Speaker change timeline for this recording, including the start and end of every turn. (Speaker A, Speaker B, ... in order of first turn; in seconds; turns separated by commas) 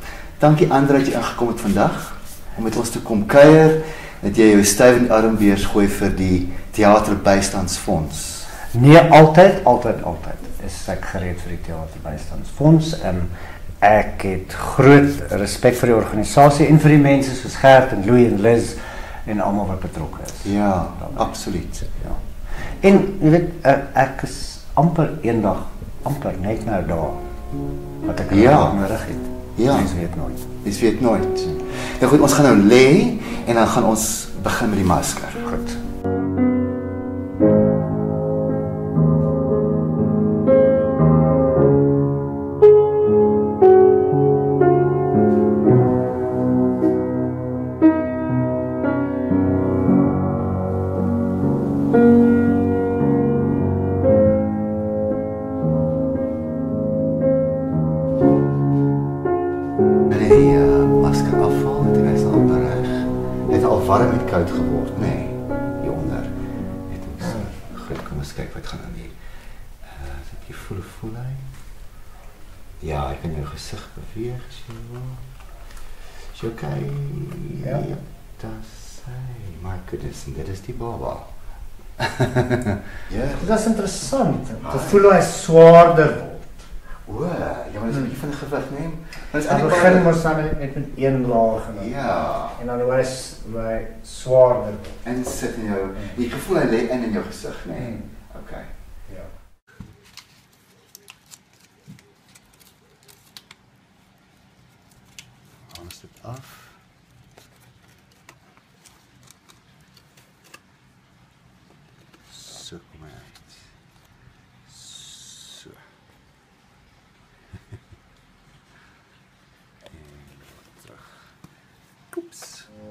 Speaker A: 0.4-8.5, Speaker B: 8.7-13.3, Speaker B: 13.8-20.5, Speaker A: 20.4-21.9, Speaker B: 22.8-27.2, Speaker B: 28.0-30.4, Speaker A: 28.3-28.8, Speaker A: 29.6-29.9, Speaker A: 30.6-35.5, Speaker B: 35.4-35.8, Speaker A: 60.1-66.3, Speaker A: 66.9-69.2, Speaker A: 69.8-71.5, Speaker A: 72.8-75.2, Speaker A: 76.3-81.3, Speaker A: 82.0-83.5, Speaker B: 83.4-86.4, Speaker A: 84.6-85.0, Speaker A: 87.0-90.1, Speaker B: 89.4-95.0, Speaker A: 91.7-92.6, Speaker A: 95.0-98.7, Speaker A: 105.7-106.8, Speaker A: 112.3-113.6, Speaker A: 114.7-115.8, Speaker A: 119.9-121.2, Speaker A: 122.1-122.7